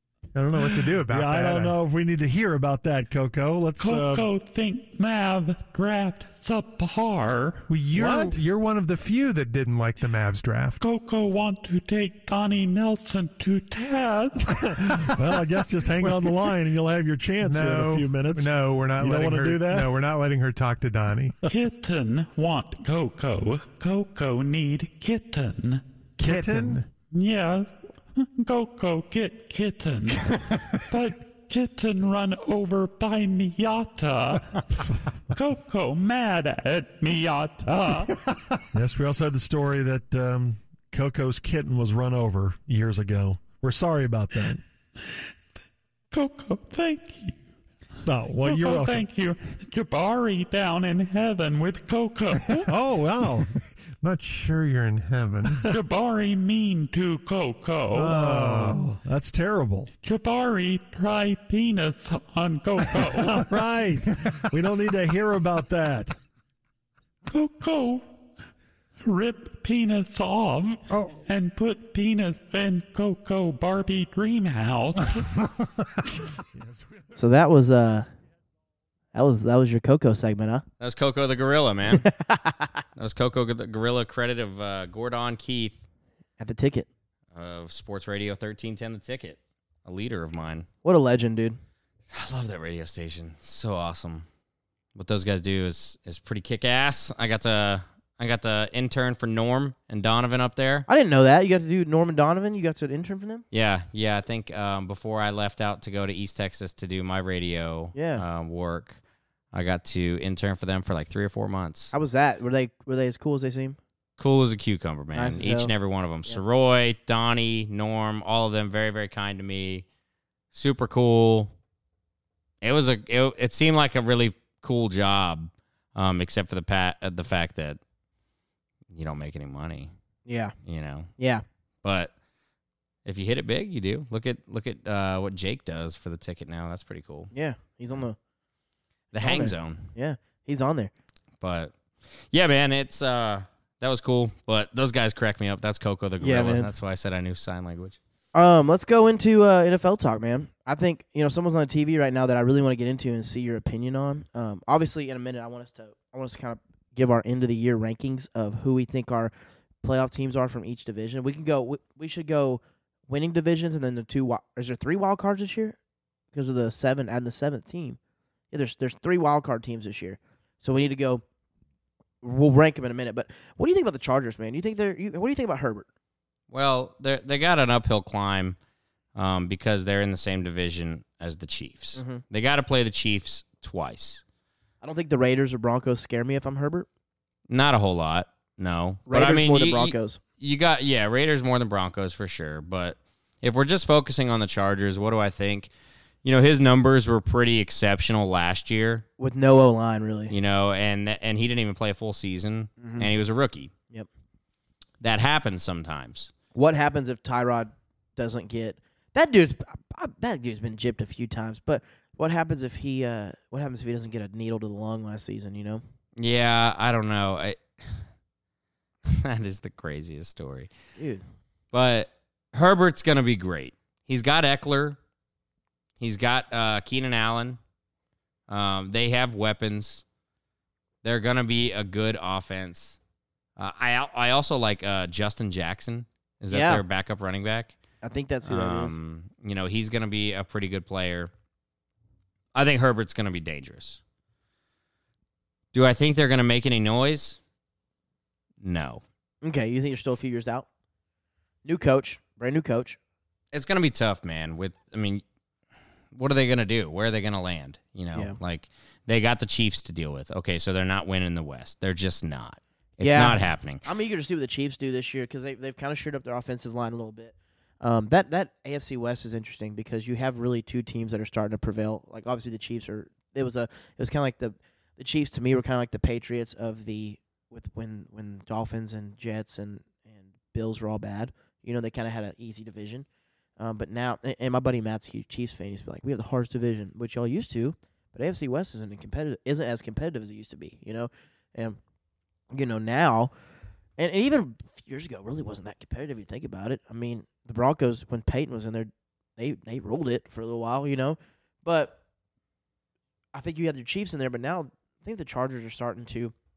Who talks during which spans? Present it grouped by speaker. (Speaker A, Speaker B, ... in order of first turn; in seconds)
Speaker A: 0.3-4.3, 8.0-8.3, 15.0-20.0, 26.2-26.8, 38.7-44.6, 48.1-49.1, 52.7-53.5, 58.0-59.9, 63.1-66.2
Speaker B: 0.6-1.8, 7.7-10.8, 16.0-16.4, 17.4-21.4, 26.2-26.9, 54.0-55.6, 58.1-58.9
Speaker C: 3.8-7.7, 10.8-14.9, 21.5-25.8, 27.1-30.3, 30.9-34.8, 35.3-38.1, 46.1-47.4, 48.4-52.7, 55.7-58.2, 60.0-63.5, 67.3-68.1, 69.0-75.3
Speaker D: 77.2-78.1, 79.1-80.7, 81.9-82.7, 86.4-86.9, 90.8-91.6, 100.9-103.4, 108.0-108.2, 111.9-113.8, 115.1-115.7, 130.3-130.6, 131.2-131.4, 137.3-138.2, 139.2-140.9, 146.2-146.7, 148.3-159.3, 159.8-165.8, 166.3-168.0, 168.5-171.2, 172.2-175.9, 182.0-182.2, 184.8-186.9, 189.1-190.2, 199.2-200.3, 202.8-203.1, 206.6-215.8, 221.0-221.2, 236.5-236.8, 238.0-238.9, 249.4-250.7, 251.7-253.0, 263.0-283.1, 283.6-291.8, 292.5-293.3, 294.0-302.0, 303.3-306.3
Speaker E: 80.8-82.1, 83.0-85.8, 87.3-90.7, 92.1-94.3, 95.0-100.9, 103.5-109.0, 109.5-111.9, 114.2-119.9, 120.5-121.5, 122.6-127.8, 128.9-129.9, 130.6-131.1, 131.8-132.1, 133.1-137.3, 139.1-139.9, 141.4-141.8, 142.3-148.0, 176.5-178.6, 179.2-184.2, 187.5-195.7, 196.2-199.1, 200.3-203.7, 205.0-206.3, 216.2-218.1, 219.1-220.7, 221.7-225.0, 226.0-227.6, 228.5-230.1, 231.0-233.0, 233.6-237.8, 238.4-241.3, 242.5-244.0, 245.7-247.4, 248.6-249.0, 253.5-255.2, 256.1-263.8